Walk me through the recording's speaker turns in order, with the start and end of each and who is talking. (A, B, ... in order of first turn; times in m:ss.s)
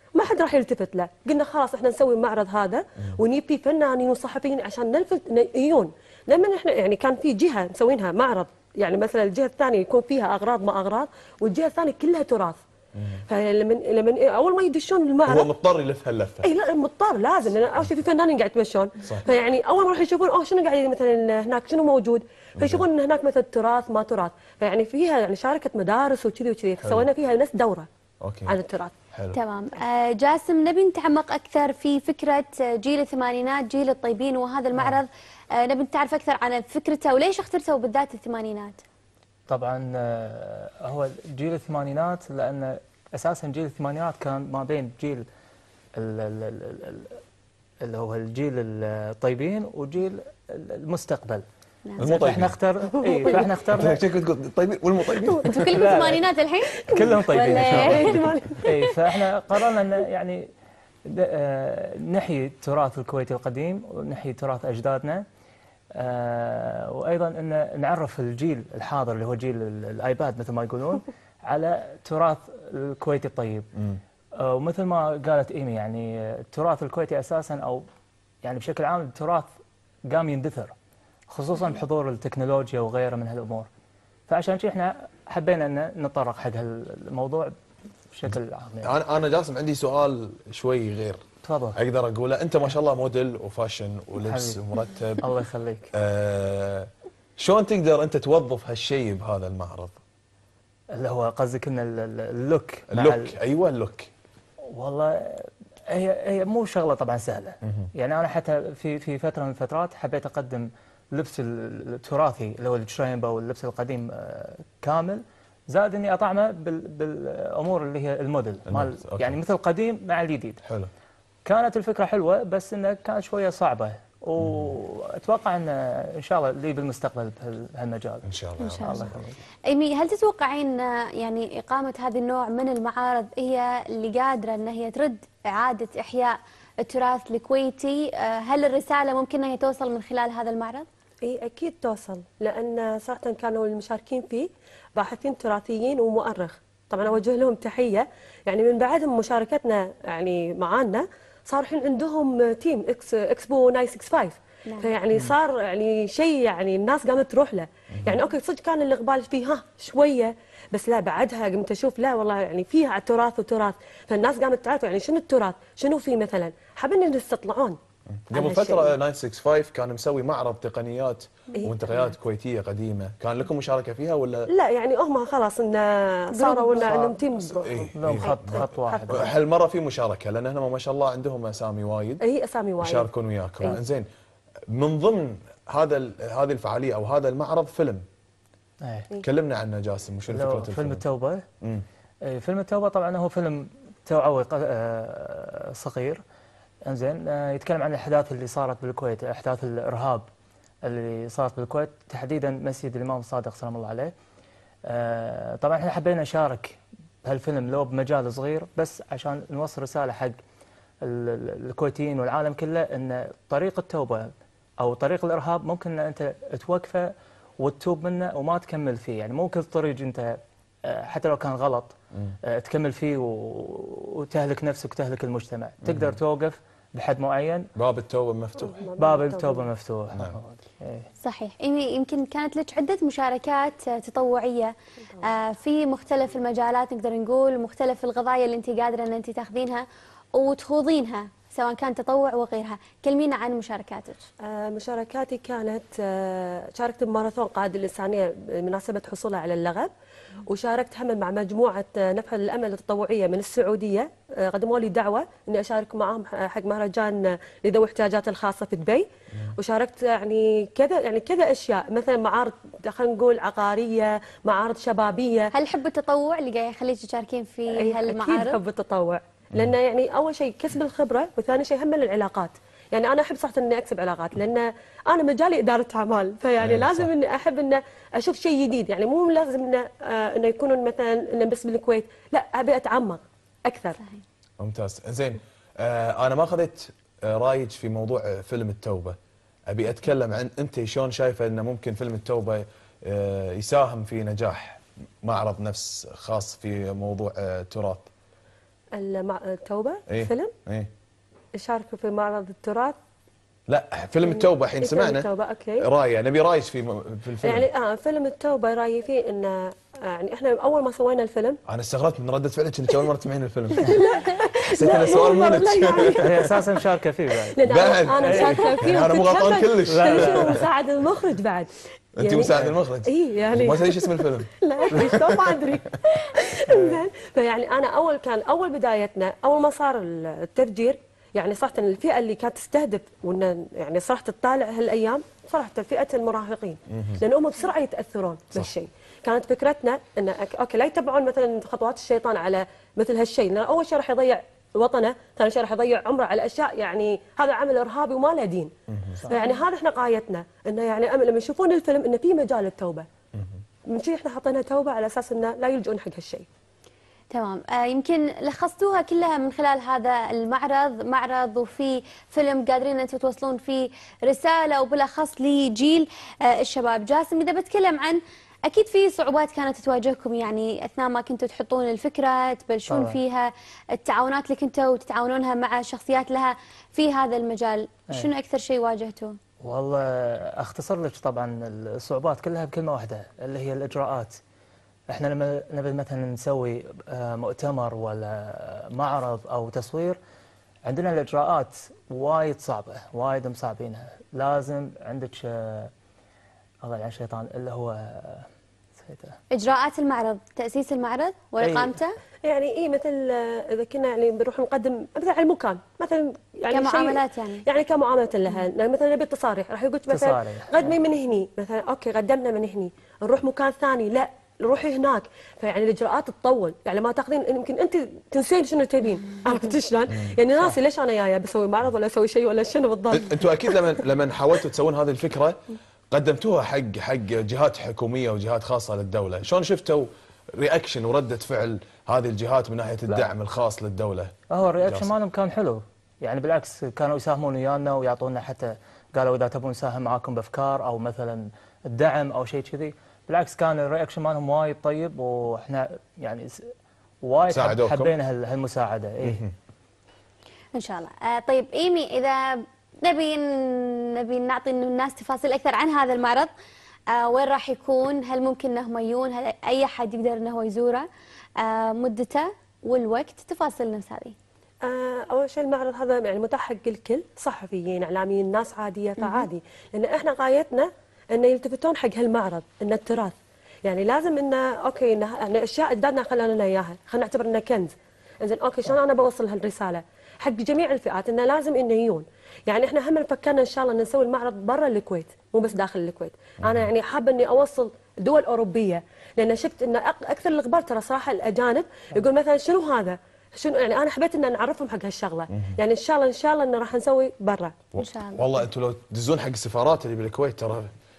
0:00.2-0:12.6 A
0:13.0-0:13.2 B
0:13.3-0:15.5 A
0:15.3-0:16.5 B
0:16.4-0:27.9 A
0:22.6-0:22.8 B
0:26.8-0:27.1 B
0:28.2-0:28.6 B
0:28.5-0:28.9 A
0:29.4-0:38.8 C
0:39.5-0:45.2 D
0:46.0-0:47.2 D
0:47.8-0:51.4 D
0:52.0-0:54.0 D
0:52.0-0:52.6 B
0:53.1-0:53.4 A
0:53.7-0:55.9 B
0:55.5-0:58.2 C
0:55.7-0:56.2 D
0:56.9-1:00.5 D
0:57.7-0:58.4 B
0:57.8-0:58.7 A
1:01.1-1:05.2 D
1:06.0-1:13.7 D
1:14.4-1:17.8 D
1:18.4-1:19.5 D
1:20.1-1:20.7 D
1:21.3-1:23.7 D
1:24.3-1:27.5 D
1:28.1-1:28.9 D
1:28.3-1:31.2 B
1:31.4-1:31.8 D
1:31.8-1:35.2 B
1:34.2-1:34.6 D
1:35.2-1:35.9 D
1:35.9-1:40.0 B
1:40.9-1:43.3 D
1:42.9-1:44.1 B
1:44.7-2:00.6 D
1:58.7-1:59.4 B
2:00.6-2:00.9 B
2:01.4-2:08.3 D
2:04.4-2:04.7 B
2:08.2-2:09.2 B
2:08.6-2:09.1 C
2:08.8-2:09.4 D
2:09.7-2:20.9 C
2:21.2-2:47.8 A
2:34.7-2:34.9 C
2:48.3-2:54.5 B
2:48.3-2:49.0 A
2:51.6-2:52.1 A
2:54.5-2:59.4 A
2:56.4-2:57.4 D
2:57.7-3:02.2 B
2:58.0-2:59.3 D
3:02.2-3:03.1 A
3:02.8-3:04.1 B
3:04.7-3:08.0 B
3:08.8-3:09.1 D
3:09.2-3:11.0 B
3:10.3-3:11.4 D
3:12.2-3:16.2 D
3:16.8-3:20.3 D
3:20.8-3:24.1 D
3:24.9-3:30.4 D
3:31.0-3:47.7 D
3:45.8-3:46.2 B
3:47.8-3:48.8 B
3:48.6-3:49.7 A
3:49.0-3:51.1 D
3:50.1-3:50.4 B
3:51.2-4:04.2 C
4:04.4-4:09.9 A
4:10.5-4:19.1 A
4:19.6-4:25.5 A
4:25.5-4:28.6 C
4:27.8-4:44.0 A
4:36.6-4:37.1 B
4:44.6-4:49.2 B
4:49.7-4:58.1 B
4:59.0-5:00.5 A
5:00.1-5:00.9 B
5:01.6-5:03.0 A
5:03.7-5:05.3 B
5:04.2-5:05.8 A
5:05.8-5:07.7 B
5:07.4-5:11.6 A
5:11.7-5:13.9 B
5:13.8-5:16.5 A
5:14.7-5:16.5 B
5:16.2-5:17.6 D
5:17.5-5:22.5 A
5:17.6-5:20.6 B
5:18.2-5:19.1 D
5:19.9-5:20.6 D
5:22.2-5:25.4 B
5:23.0-5:48.7 A
5:26.7-5:27.0 D
5:36.9-5:37.2 B
5:48.9-5:49.2 B
5:49.3-5:53.1 A
5:53.9-5:56.5 A
5:57.3-6:19.4 C
6:12.9-6:13.2 D
6:19.6-6:24.4 D
6:25.1-6:30.2 D
6:30.8-6:35.9 D
6:36.8-6:38.5 D
6:39.0-6:39.4 D
6:39.5-6:42.2 C
6:41.6-6:42.0 D
6:42.4-7:03.8 A
6:46.7-6:47.6 C
6:50.1-6:51.0 D
7:03.1-7:05.6 B
7:06.1-7:15.1 B
7:14.5-7:26.7 D
7:27.2-7:29.4 D
7:27.5-7:28.1 B
7:29.2-7:29.5 B
7:30.7-7:36.5 C
7:37.1-7:41.1 C
7:41.6-7:44.4 C
7:44.8-7:53.3 A
7:49.2-7:49.5 C
7:53.8-8:17.8 A
8:06.6-8:06.9 B
8:17.9-8:20.9 B
8:18.0-8:18.5 C